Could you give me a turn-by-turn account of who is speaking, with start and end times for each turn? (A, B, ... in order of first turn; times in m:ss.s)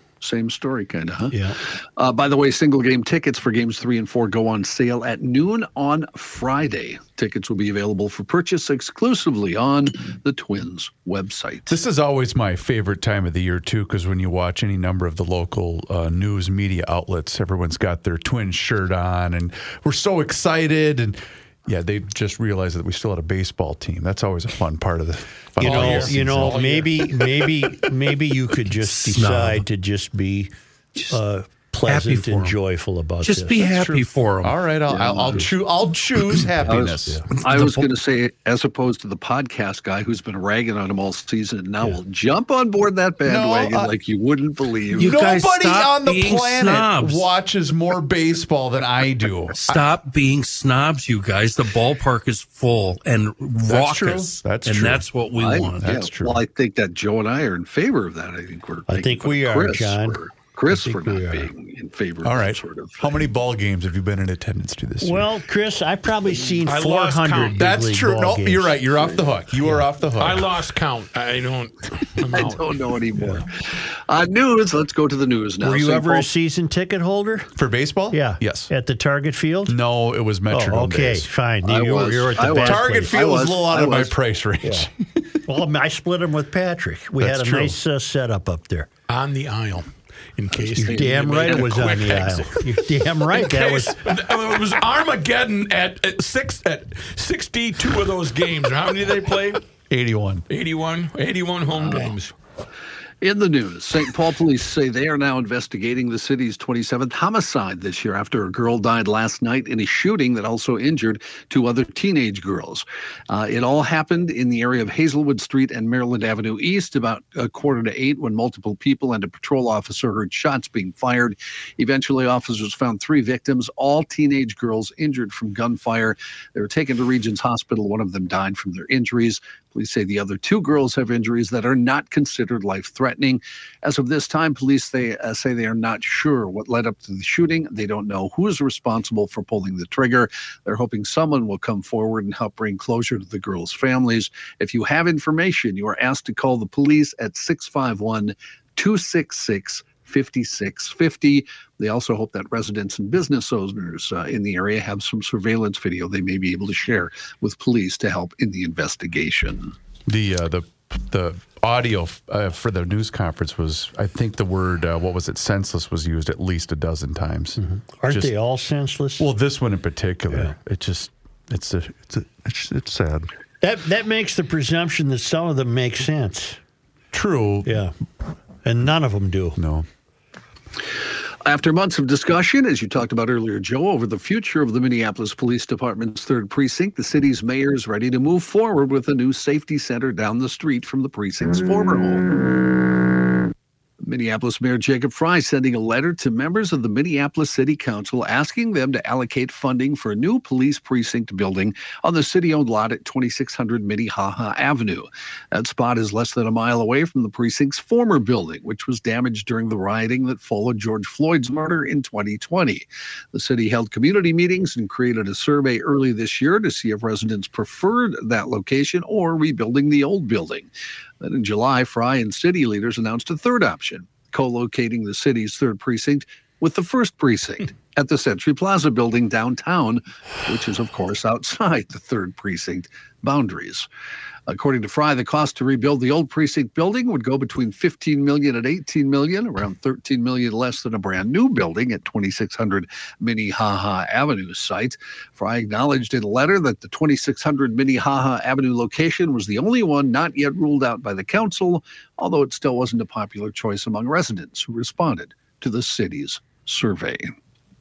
0:00.2-0:11.8 A
0:01.3-0:01.6 B
0:11.7-0:26.6 C
0:25.6-0:30.5 B
0:25.6-0:26.9 D
0:28.8-0:29.6 E
0:31.1-0:33.6 B
0:31.8-0:32.6 E
0:33.2-0:34.6 E
0:33.6-0:37.2 C
0:34.9-0:35.5 A
0:36.6-0:45.2 A
0:37.4-0:37.9 E
0:43.2-0:43.9 C
0:45.0-0:47.2 E
0:45.0-0:49.8 C
0:49.6-0:55.9 E
0:53.6-0:55.1 C
0:55.4-1:03.2 A
0:55.8-0:56.4 C
0:58.9-1:01.5 B
1:02.2-1:05.3 C
1:05.0-1:08.8 B
1:06.6-1:07.6 D
1:07.6-1:10.5 C
1:09.6-1:09.8 B
1:10.2-1:12.6 D
1:12.3-1:16.3 A
1:15.6-1:17.5 B
1:17.6-1:18.7 C
1:18.1-1:19.8 B
1:19.7-1:21.3 C
1:20.5-1:23.2 B
1:21.6-1:24.1 A
1:22.5-1:25.3 C
1:25.4-1:28.9 B
1:27.2-1:27.8 C
1:29.1-1:39.6 D
1:30.5-1:31.8 A
1:30.7-1:34.0 B
1:39.9-1:40.4 C
1:40.5-1:42.3 D
1:41.8-1:42.1 A
1:43.2-2:39.7 A
2:40.0-2:48.3 C
2:47.6-2:49.3 B
2:49.2-2:53.3 C
2:53.6-2:56.6 B
2:57.1-2:57.7 C
2:57.6-2:57.9 B
2:58.6-2:59.6 B
2:59.6-2:59.9 C
3:01.4-3:12.3 A
3:14.0-3:53.9 A
3:54.5-4:17.3 A